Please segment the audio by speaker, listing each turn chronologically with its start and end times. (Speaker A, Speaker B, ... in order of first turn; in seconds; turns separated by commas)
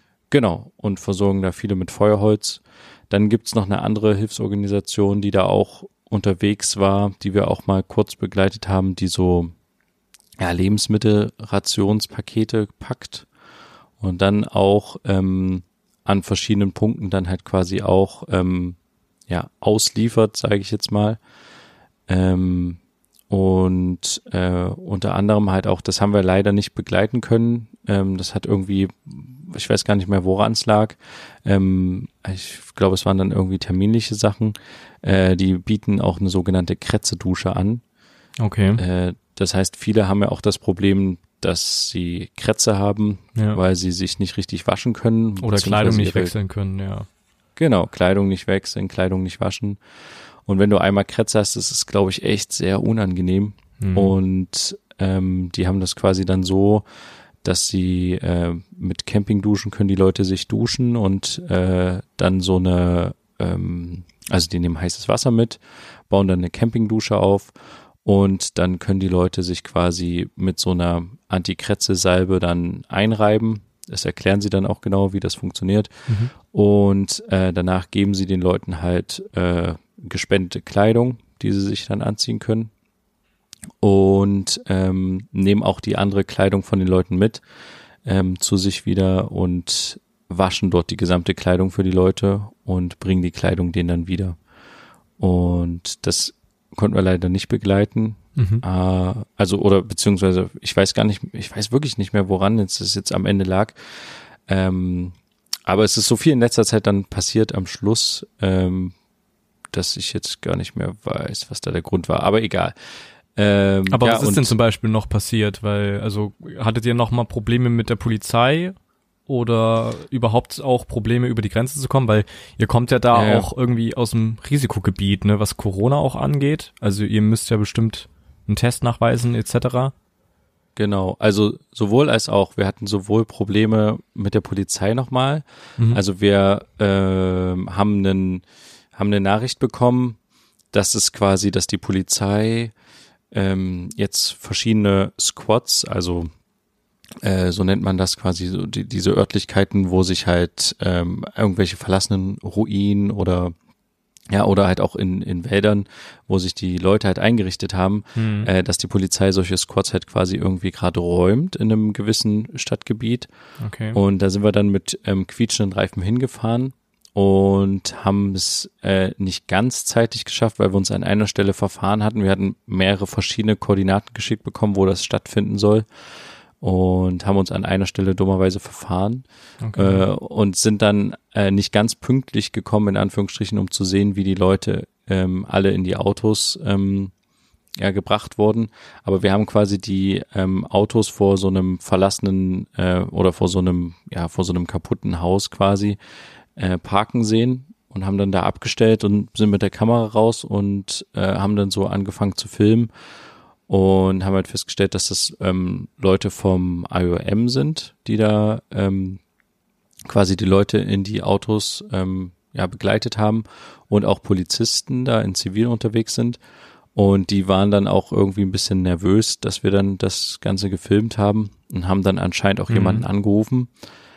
Speaker A: 0.3-9.5, Speaker A: 10.4-13.2, Speaker A: 14.0-18.8, Speaker A: 19.3-21.2, Speaker A: 22.1-22.8, Speaker A: 23.3-37.8, Speaker B: 38.4-38.8, Speaker A: 38.8-46.3, Speaker B: 45.4-47.1, Speaker A: 47.6-49.8, Speaker A: 50.5-56.8, Speaker B: 53.8-54.1, Speaker A: 57.4-65.6, Speaker A: 66.1-67.5, Speaker A: 68.0-82.7, Speaker B: 76.1-76.3, Speaker A: 83.8-87.4, Speaker A: 88.0-94.4, Speaker A: 95.2-105.1, Speaker B: 98.3-98.6, Speaker A: 105.7-108.9, Speaker A: 109.7-112.7, Speaker A: 113.3-114.5, Speaker B: 113.9-118.8, Speaker B: 119.3-129.9, Speaker A: 123.1-123.5, Speaker A: 130.8-138.4, Speaker A: 138.9-140.2, Speaker A: 140.7-142.7, Speaker A: 143.3-146.3, Speaker A: 147.2-153.5, Speaker A: 154.3-163.3, Speaker B: 158.2-158.5, Speaker B: 163.6-164.0, Speaker A: 163.9-175.8, Speaker A: 176.6-179.2, Speaker B: 179.6-180.0, Speaker A: 179.7-187.1, Speaker A: 187.8-196.0, Speaker A: 196.6-202.9, Speaker A: 203.7-209.2, Speaker A: 210.1-216.4, Speaker A: 216.9-223.7, Speaker B: 222.7-223.0